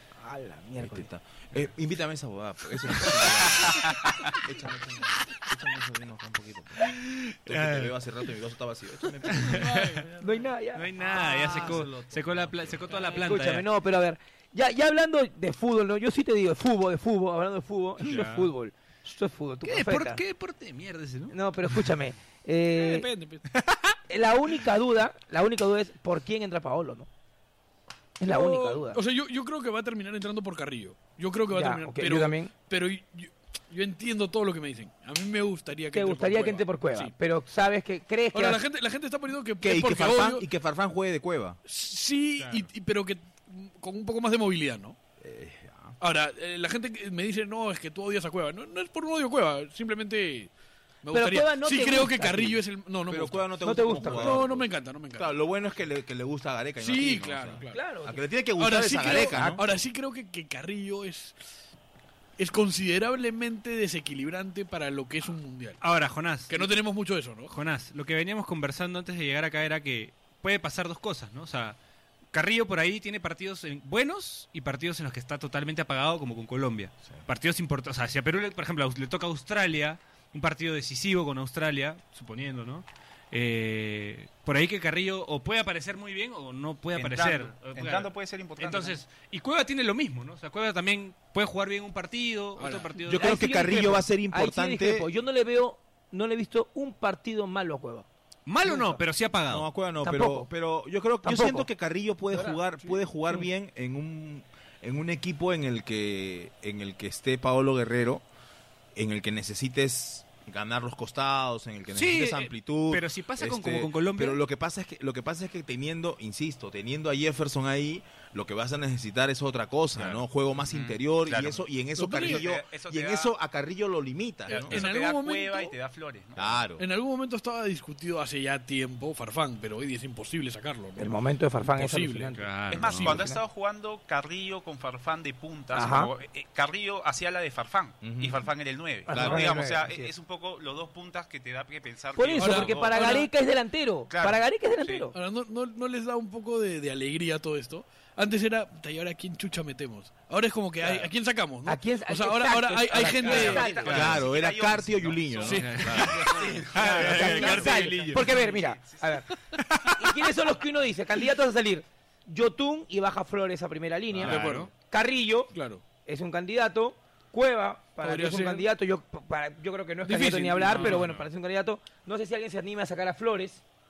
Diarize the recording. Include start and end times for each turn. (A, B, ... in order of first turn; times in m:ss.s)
0:00.2-0:01.1 A
0:00.8-0:09.9 B
0:03.7-0:04.1 C
0:06.8-0:07.9 C
0:09.3-0:10.0 C
0:09.4-0:10.4 D
0:10.2-0:11.7 A
0:10.7-0:13.7 C
0:11.0-0:13.1 B
0:13.1-0:20.2 A
0:18.0-0:18.5 C
0:19.6-0:21.9 C
0:21.3-0:23.1 A
0:22.7-0:23.4 D
0:23.5-0:24.0 C
0:24.1-0:27.1 A
0:28.2-0:29.0 A
0:28.2-0:37.1 D
0:31.5-0:32.5 A
0:35.9-0:38.6 A
0:38.3-0:40.4 D
0:39.6-0:41.6 B
0:41.6-0:45.0 D
0:42.4-0:42.7 C
0:45.2-0:46.0 B
0:46.0-0:50.5 D
0:51.0-0:55.4 D
0:51.1-0:52.6 A
0:53.1-0:59.6 B
0:53.6-0:54.5 A
0:56.8-0:57.8 D
0:57.7-0:58.2 A
0:58.6-1:01.4 D
0:59.3-0:59.6 A
1:02.4-1:05.8 D
1:05.8-1:06.7 C
1:06.5-1:07.5 D
1:07.5-1:11.8 C
1:12.3-1:33.5 C
1:26.9-1:29.0 E
1:32.6-1:33.0 D
1:33.1-1:35.1 B
1:33.1-1:38.0 A
1:38.4-1:39.7 C
1:38.6-1:39.0 A
1:39.5-1:48.2 B
1:40.0-1:40.5 A
1:41.2-1:41.7 A
1:42.3-1:42.6 A
1:48.9-2:04.8 B
1:51.9-1:54.4 C
2:00.7-2:03.3 E
2:02.0-2:02.4 D
2:04.5-2:06.6 E
2:04.5-2:05.7 D
2:06.4-2:06.8 B
2:06.8-2:11.2 D
2:11.0-2:13.4 A
2:11.7-2:12.4 D
2:12.4-2:13.2 C
2:12.7-2:23.3 E
2:12.9-2:13.3 D
2:15.7-2:16.1 A
2:18.0-2:18.4 B
2:19.1-2:20.1 A
2:19.1-2:19.6 B
2:22.2-2:25.1 A
2:22.4-2:23.3 D
2:24.1-2:25.1 E
2:25.1-2:33.7 D
2:31.6-2:34.1 A
2:33.2-2:39.2 E
2:33.3-2:34.2 C
2:33.8-2:36.4 B
2:35.4-2:36.6 D
2:35.5-2:38.3 C
2:36.6-2:39.3 A
2:39.3-2:40.4 C
2:39.9-2:53.6 A
2:44.1-2:44.7 C
2:44.2-2:44.7 D
2:45.5-2:45.8 D
2:48.0-2:48.7 D
2:50.0-2:51.0 D
2:50.7-2:51.3 C